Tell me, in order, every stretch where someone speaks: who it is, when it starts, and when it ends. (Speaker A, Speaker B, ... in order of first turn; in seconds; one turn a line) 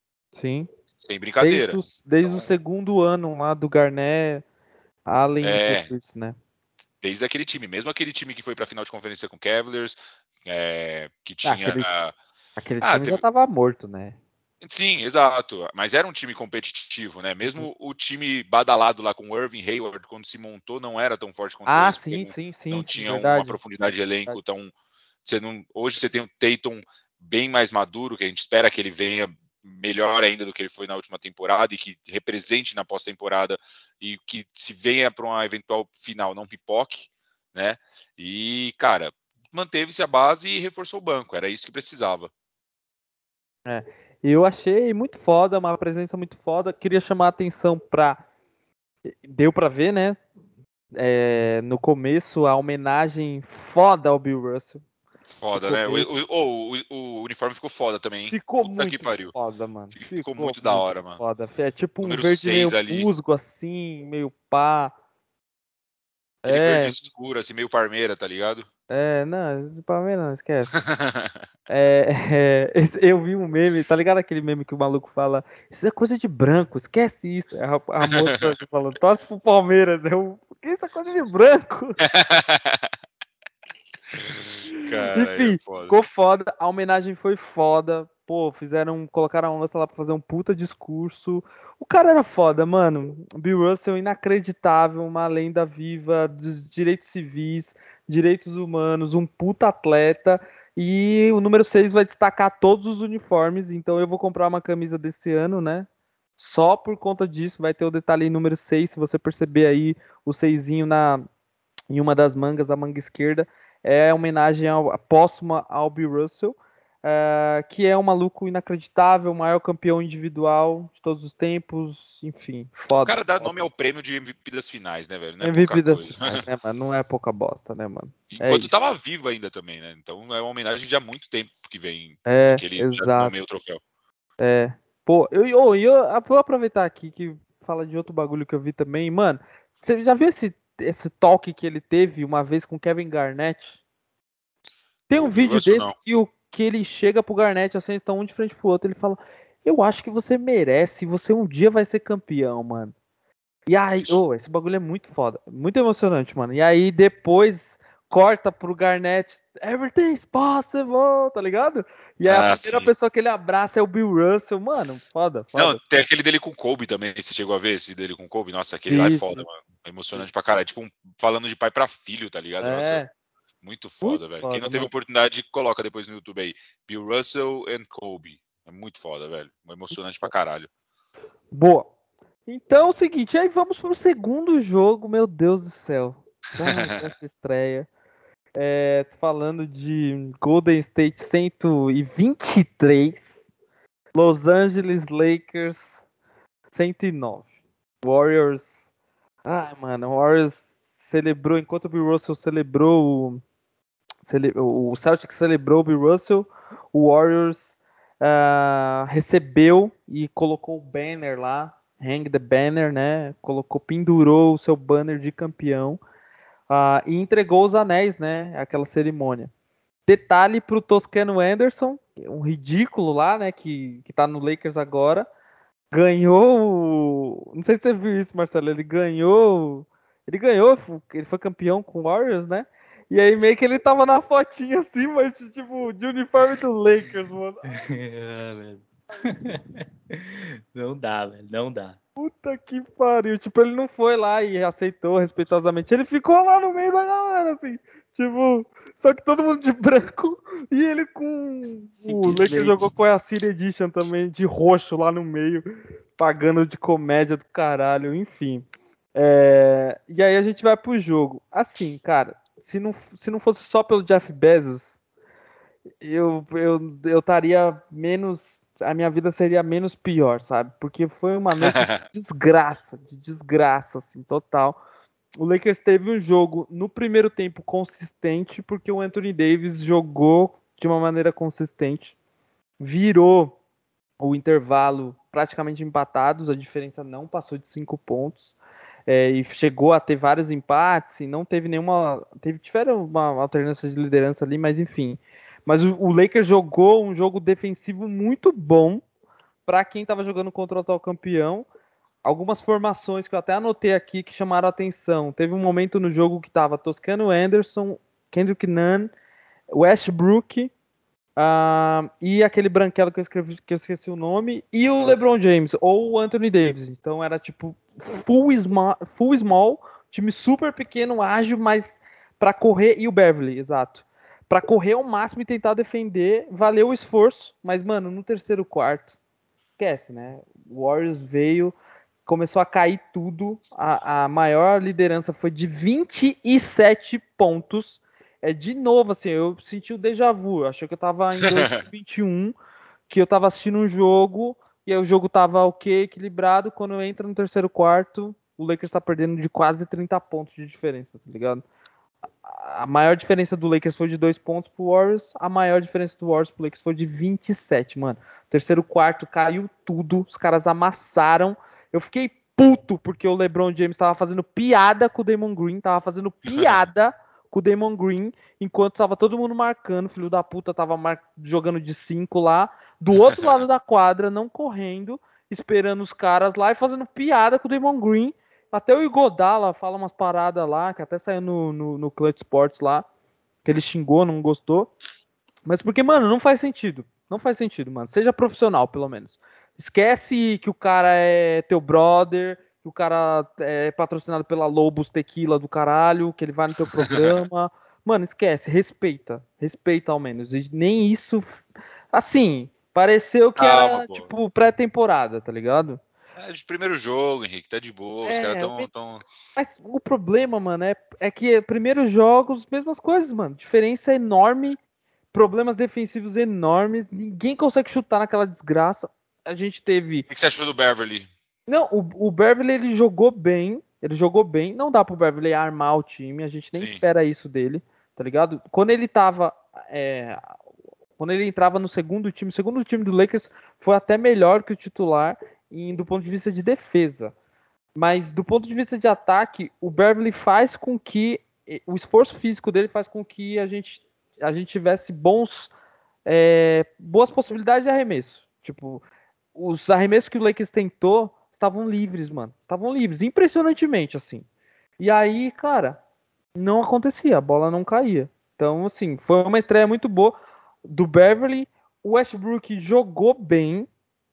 Speaker A: 0.3-0.7
Speaker B: 1.0-2.5
Speaker A: 1.4-4.4
Speaker A: 5.1-6.4
Speaker B: 5.4-5.9
Speaker B: 7.0-12.1
Speaker A: 11.4-11.9
Speaker A: 12.6-14.2
Speaker B: 12.8-13.2
Speaker B: 14.6-24.7
Speaker A: 21.7-23.6
Speaker B: 25.2-42.3
Speaker A: 43.7-48.2
Speaker A: 49.1-50.2
Speaker A: 51.0-54.8
Speaker B: 55.3-59.4
Speaker A: 55.5-56.2
Speaker A: 58.3-64.9
Speaker B: 59.9-61.2
Speaker B: 62.0-63.1
Speaker A: 66.4-67.0
Speaker B: 66.5-68.7
Speaker A: 68.9-70.8
Speaker B: 70.7-71.4
Speaker A: 71.7-82.0
Speaker B: 78.0-78.5
Speaker B: 82.0-82.9
Speaker B: 84.1-86.0
Speaker A: 84.7-111.3
Speaker A: 111.9-123.6
Speaker B: 123.0-126.5
Speaker A: 125.4-128.8
Speaker B: 128.3-133.8
Speaker A: 132.3-133.4
Speaker A: 134.4-143.8
Speaker A: 145.1-152.9
Speaker B: 145.1-146.0
Speaker A: 153.7-165.8
Speaker B: 162.2-162.9
Speaker B: 165.6-173.0
Speaker A: 168.9-169.4
Speaker A: 172.6-173.1
Speaker B: 173.6-180.7
Speaker A: 174.0-174.9
Speaker A: 181.5-181.9
Speaker A: 182.5-187.9
Speaker B: 186.6-187.1
Speaker A: 188.6-193.5
Speaker A: 194.1-196.0
Speaker A: 196.7-197.5
Speaker A: 198.0-198.9
Speaker A: 199.4-203.4
Speaker A: 204.2-216.0
Speaker A: 216.7-219.5
Speaker A: 220.1-225.3
Speaker A: 225.9-237.7
Speaker C: 237.7-242.0
Speaker A: 242.2-255.7
Speaker C: 252.0-252.9
Speaker A: 256.2-265.0
Speaker A: 266.0-274.8
Speaker B: 271.6-272.1
Speaker A: 275.4-282.2
Speaker A: 282.8-283.6
Speaker A: 284.2-288.5
Speaker A: 289.1-299.0
Speaker A: 299.7-301.7
Speaker A: 302.2-309.1
Speaker A: 309.7-310.7
Speaker A: 311.4-329.1
Speaker A: 329.8-331.7
Speaker A: 332.3-342.6
Speaker B: 341.4-341.8
Speaker A: 343.1-351.6
Speaker A: 352.5-383.1
Speaker B: 373.2-373.6
Speaker A: 383.6-384.9
Speaker A: 385.7-401.6
Speaker B: 397.1-397.4
Speaker A: 402.1-406.0
Speaker B: 403.6-404.3
Speaker B: 406.4-409.2
Speaker A: 408.2-408.9
Speaker A: 409.6-414.8
Speaker A: 415.3-420.3
Speaker B: 420.3-421.3
Speaker A: 421.7-430.4
Speaker B: 426.8-427.0
Speaker A: 431.2-437.3
Speaker A: 437.9-445.7
Speaker A: 446.3-449.0
Speaker A: 449.6-454.4
Speaker A: 455.0-456.0
Speaker A: 456.6-463.9